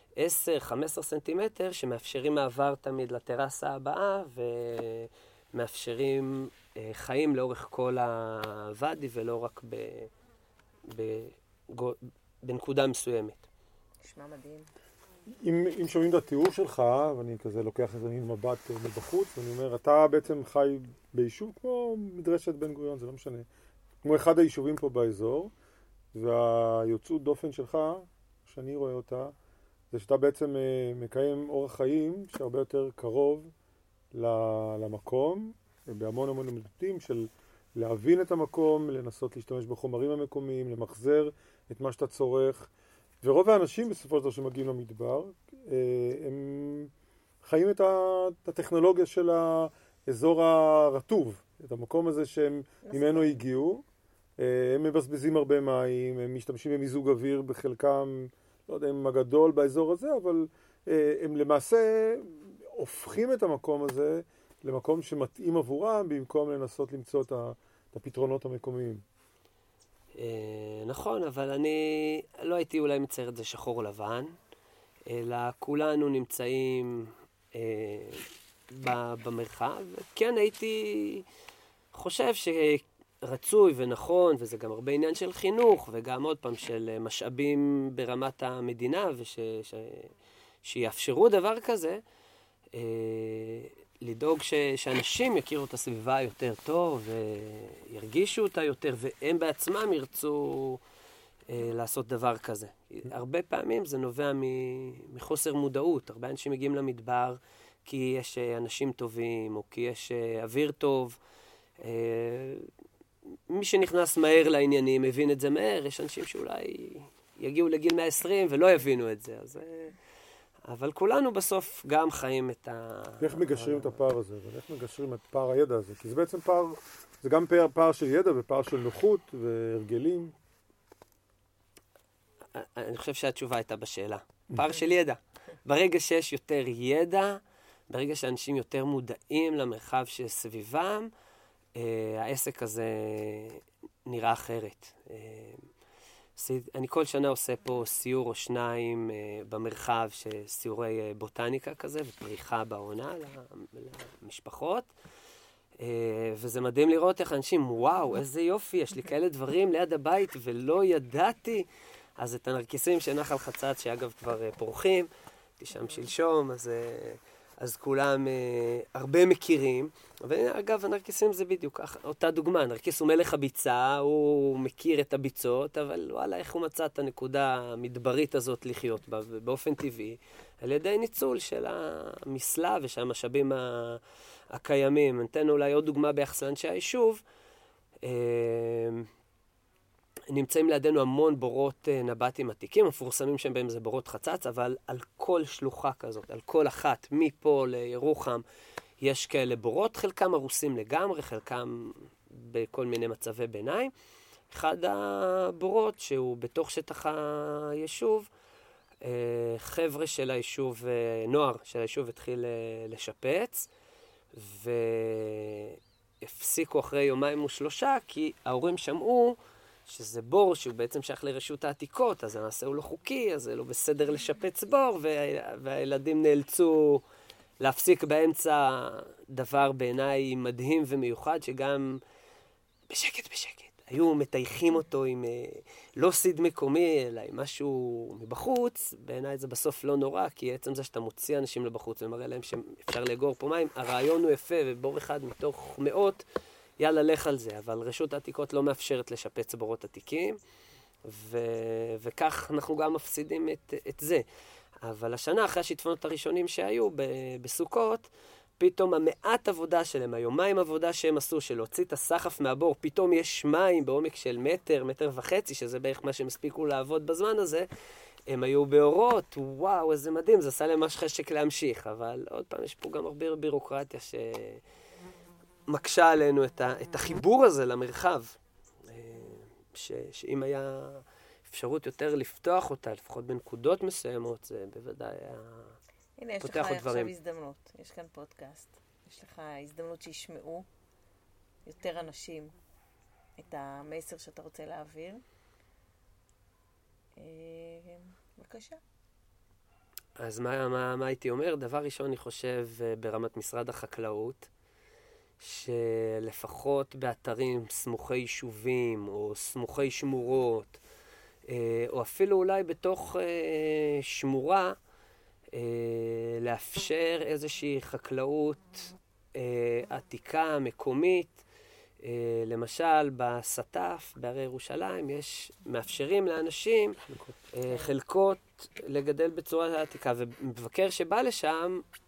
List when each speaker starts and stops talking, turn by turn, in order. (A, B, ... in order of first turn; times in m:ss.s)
0:00.2-0:10.1 A
0:10.8-0:13.4 A
0:14.0-0:14.7 B
0:15.4-0:23.5 C
0:24.0-0:25.5 C
0:26.1-0:29.3 C
0:29.9-0:33.5 C
0:34.1-0:42.7 C
0:43.2-0:46.9 C
0:47.4-0:53.8 C
0:52.8-0:53.4 B
0:54.4-1:09.0 C
1:10.1-1:14.3 A
1:15.0-1:21.2 A
1:21.9-1:30.1 A
1:30.6-1:32.0 A
1:32.7-1:40.8 A
1:41.5-1:51.2 A
1:51.8-1:52.7 A
1:53.5-2:00.0 A
2:00.6-2:04.0 A
2:03.2-2:10.3 C
2:12.5-2:21.1 A
2:21.7-2:25.7 A
2:26.4-2:34.9 A
2:35.8-2:45.1 A
2:45.6-3:07.2 A
3:08.0-3:09.1 A
3:10.3-3:18.4 A
3:19.0-3:23.9 A
3:24.5-3:28.3 A
3:29.0-3:33.7 A
3:34.3-3:47.0 A
3:47.6-3:52.0 A
3:52.9-4:06.2 A
4:06.8-4:10.4 A
4:11.0-4:14.2 A
4:14.8-4:27.7 A
4:28.3-4:34.6 A
4:35.7-4:38.3 A
4:38.8-4:45.7 A
4:46.2-4:50.7 B
4:46.4-4:47.1 A
4:51.6-4:52.5 B
4:53.4-4:55.2 B
4:57.2-4:58.8 B
5:00.2-5:04.5 A
5:05.4-5:10.8 A
5:11.5-5:14.8 A
5:15.5-5:21.4 A
5:22.0-5:27.0 A
5:27.1-5:27.4 C
5:27.5-5:31.8 A